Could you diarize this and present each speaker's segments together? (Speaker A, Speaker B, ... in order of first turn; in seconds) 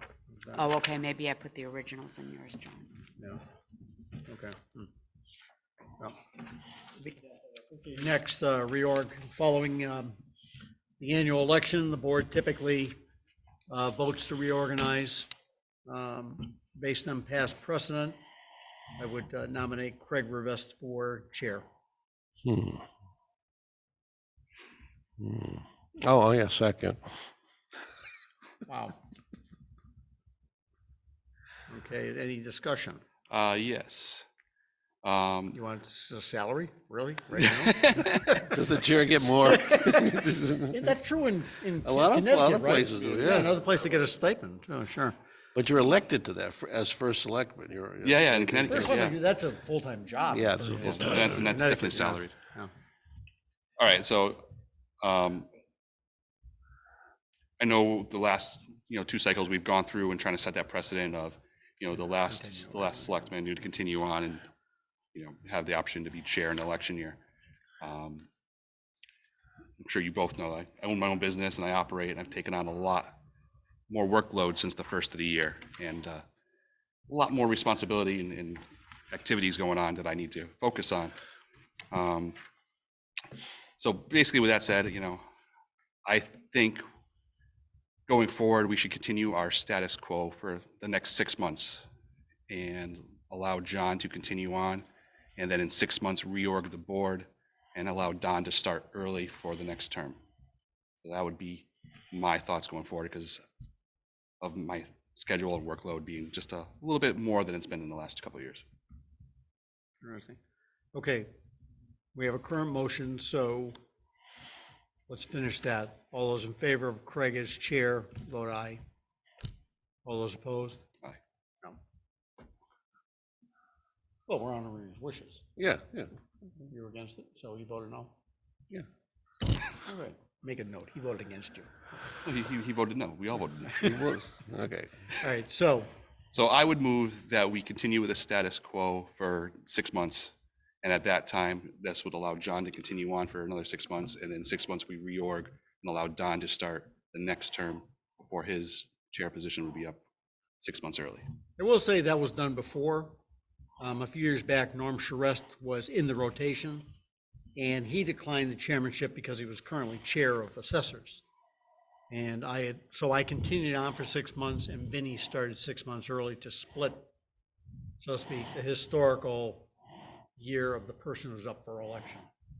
Speaker A: 0.3-0.7, 4.2-4.9, 7.0-10.2, 11.0-13.0, 13.7-15.3, 15.9-18.2, 19.0-21.6, 28.7-29.0, 31.7-33.0, 35.5-38.6, 39.5-40.2, 40.7-45.2, 48.7-52.7, 62.2-63.3, 110.0-110.4, 110.9-111.3, 112.1-113.8, 115.1-118.8, 120.0-120.8, 124.3-125.5, 126.4-128.1, 129.8-131.7, 135.2-135.9, 151.6-153.2, 153.8-156.8, 157.6-161.2, 162.1-167.1, 168.0-169.7, 170.4-172.3
Speaker B: 0.6-2.9
Speaker C: 22.4-22.9, 25.2-27.2, 38.5-40.9, 41.8-43.5, 45.5-49.1, 50.3-51.5, 125.6-126.1, 133.8-134.9
Speaker D: 33.3-34.3, 35.0-35.6, 37.7-38.2, 43.0-43.5, 48.0-49.1, 50.8-52.4, 53.8-54.5, 55.0-55.5, 57.6-64.4, 65.1-67.2, 67.8-68.3, 69.8-73.2, 73.9-76.2, 77.1-81.1, 81.9-82.4, 83.8-85.2, 86.0-86.8, 88.1-91.8, 92.5-94.9, 95.4-100.2, 101.0-103.4, 104.4-108.6, 132.2-133.9, 136.3-150.0, 150.6-151.2